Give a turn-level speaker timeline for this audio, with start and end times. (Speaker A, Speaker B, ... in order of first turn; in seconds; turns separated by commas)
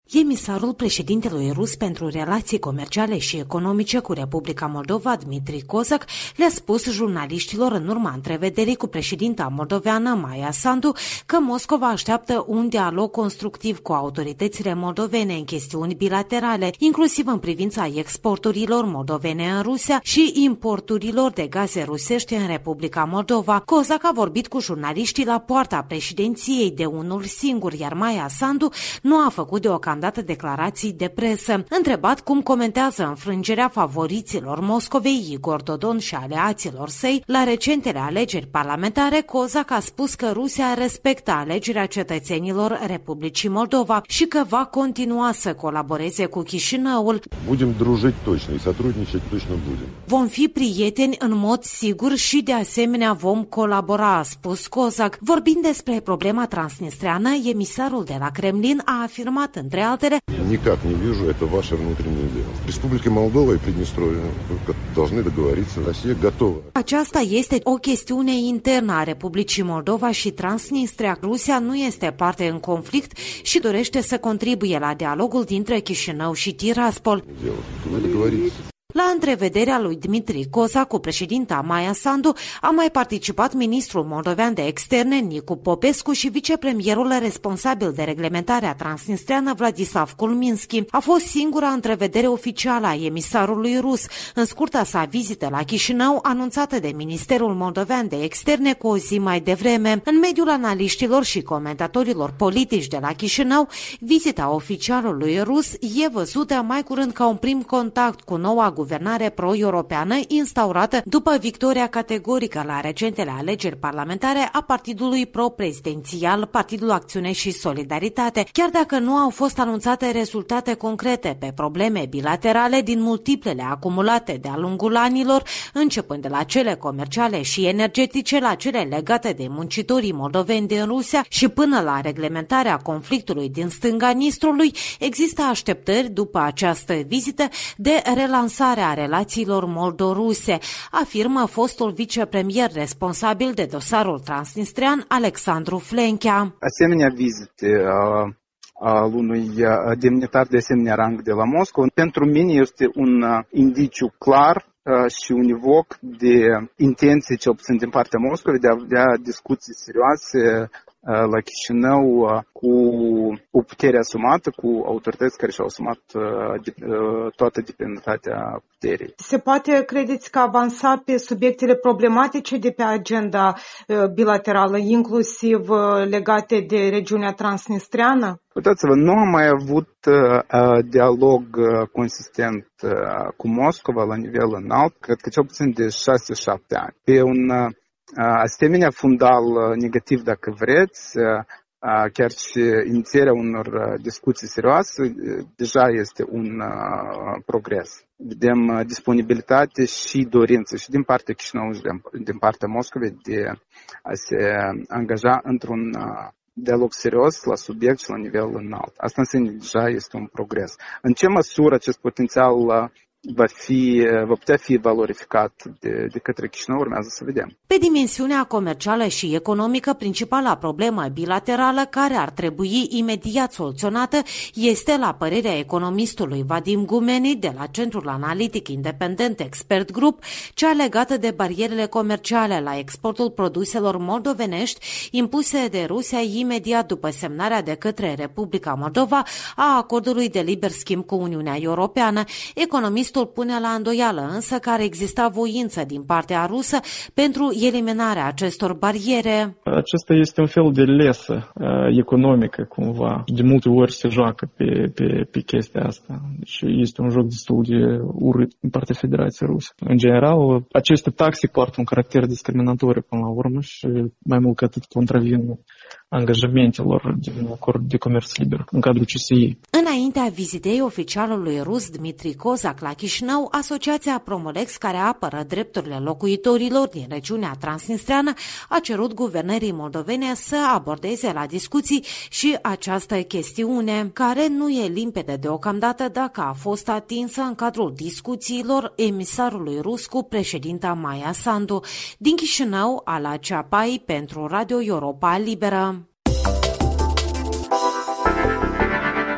Speaker A: 0.1-47.2, Speaker B: 47.4-50.0, Speaker A: 50.1-60.2, Speaker B: 60.3-66.7, Speaker A: 66.8-77.2, Speaker B: 77.3-78.6, Speaker A: 78.9-146.5, Speaker C: 146.6-169.1, Speaker D: 169.2-178.4, Speaker C: 178.6-217.5, Speaker A: 217.7-249.6, Speaker E: 249.7-269.6, Speaker A: 269.7-296.0